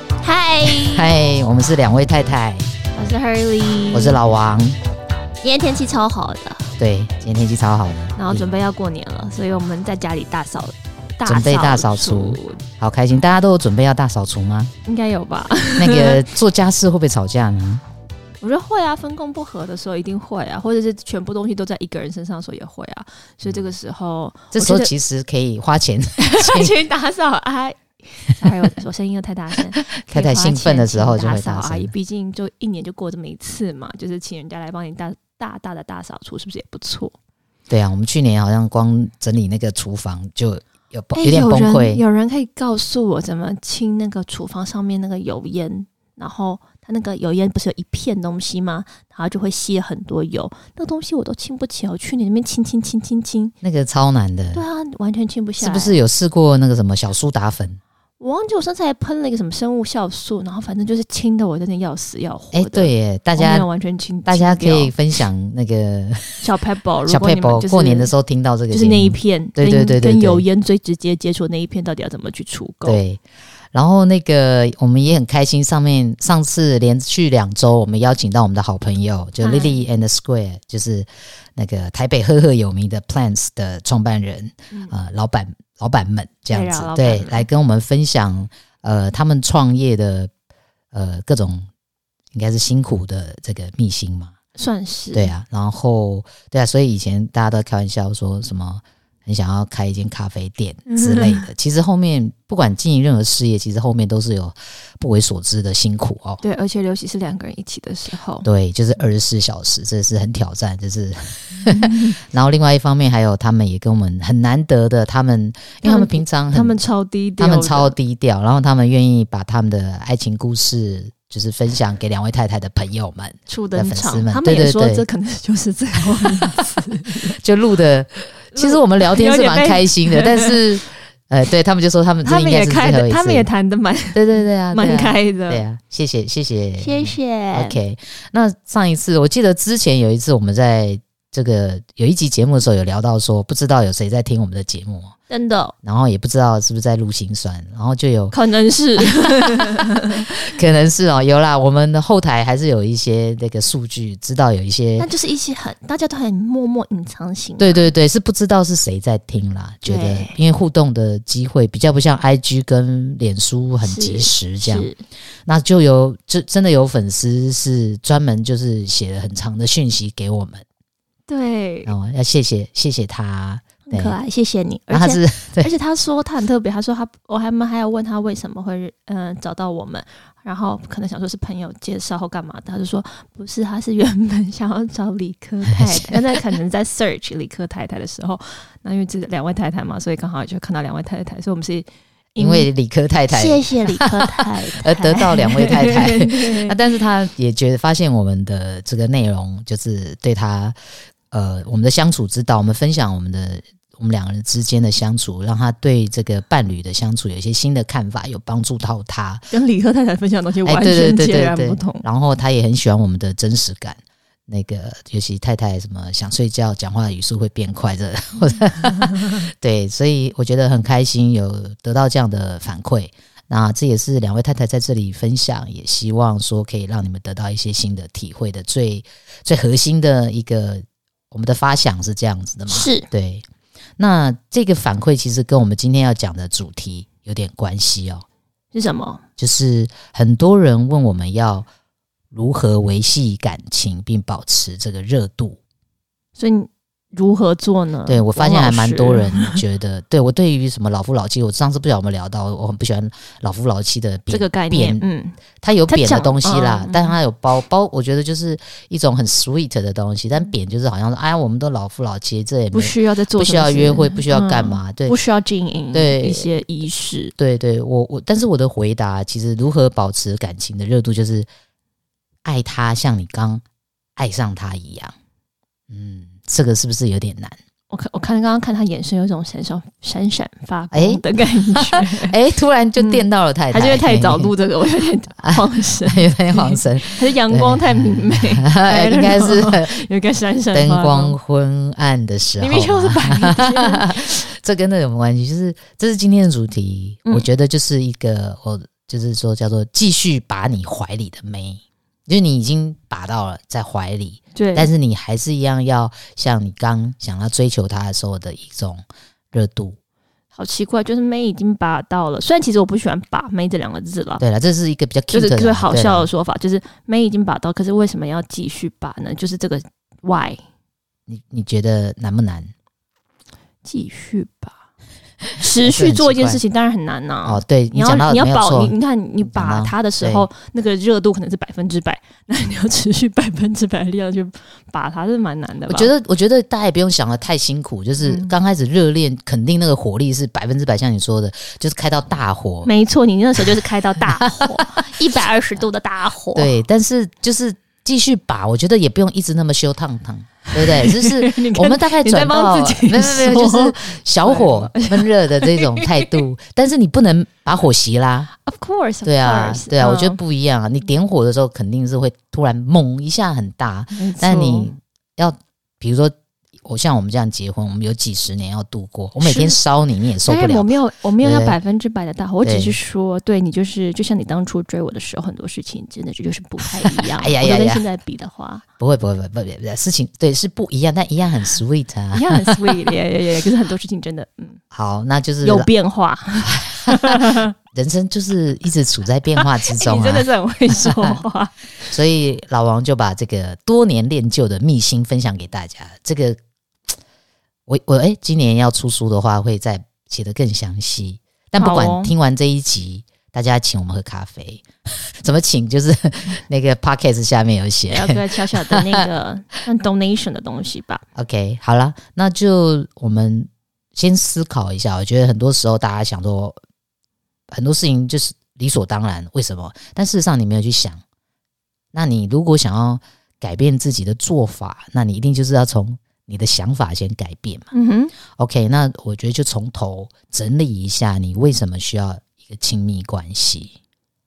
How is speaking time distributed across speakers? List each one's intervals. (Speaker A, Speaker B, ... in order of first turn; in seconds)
Speaker A: 0.2-1.1, 3.0-4.2, 5.4-6.7, 8.2-12.6, 14.8-16.2, 18.4-24.9, 26.2-37.1, 41.2-53.5, 54.5-56.0, 58.2-64.9, 66.4-68.1, 68.7-73.0, 79.4-79.8, 86.5-87.5, 94.6-95.3, 100.9-101.5, 106.4-108.5, 115.8-118.0, 123.5-127.3, 128.5-130.6, 132.2-135.6, 136.8-137.8, 145.3-145.8, 148.3-150.3, 155.0-157.9, 159.9-160.4, 163.8-165.0, 171.3-171.9, 173.9-192.7, 193.3-196.8, 209.5-212.1, 232.7-233.1, 238.7-239.2, 246.4-249.6, 254.3-255.4, 255.9-257.1, 262.7-267.3, 277.9-282.4, 283.0-291.4, 292.6-294.2, 304.6-304.9, 310.6-314.4, 315.3-320.6, 323.8-324.8, 325.5-336.1, 338.2-338.5, 342.8-346.7, 350.7-356.3, 358.6-360.4, 364.1-364.9, 369.4-369.8, 370.4-378.9, 382.3-384.8, 385.6-387.7, 389.6-392.1, 401.8-402.3, 408.1-411.2, 427.9-428.3
Speaker B: 0.6-2.7, 3.9-4.8, 6.8-8.6, 11.3-14.7, 15.8-17.8, 24.5-26.8, 29.8-31.9, 37.7-42.0, 53.6-54.6, 55.6-57.8, 62.5-63.7, 64.2-66.5, 67.1-70.4, 72.8-73.2, 73.7-90.3, 90.9-91.7, 92.3-94.3, 95.1-106.4, 108.4-116.8, 117.4-125.0, 126.2-133.5, 134.1-145.1, 145.8-148.3, 149.0-155.1, 157.6-164.9, 165.5-170.6, 171.9-174.2, 174.9-175.7, 185.7-186.4, 192.4-200.8, 201.3-209.4, 210.7-233.4, 234.0-238.2, 239.4-241.7, 242.3-245.6, 248.1-255.0, 255.6-265.1, 265.9-266.5, 267.4-271.5, 272.4-273.6, 274.2-275.1, 275.9-277.6, 280.9-284.5, 285.4-290.0, 290.7-310.0, 314.4-316.3, 321.3-322.7, 325.8-326.6, 327.4-330.5, 335.9-342.9, 344.6-345.0, 346.6-358.5, 359.2-371.8, 372.6-373.0, 377.0-378.0, 379.0-383.1, 384.9-385.9, 386.6-391.4, 392.1-396.6, 397.9-404.9, 405.4-409.2, 411.4-416.8, 417.7-421.2, 422.1-427.9, 428.5-433.9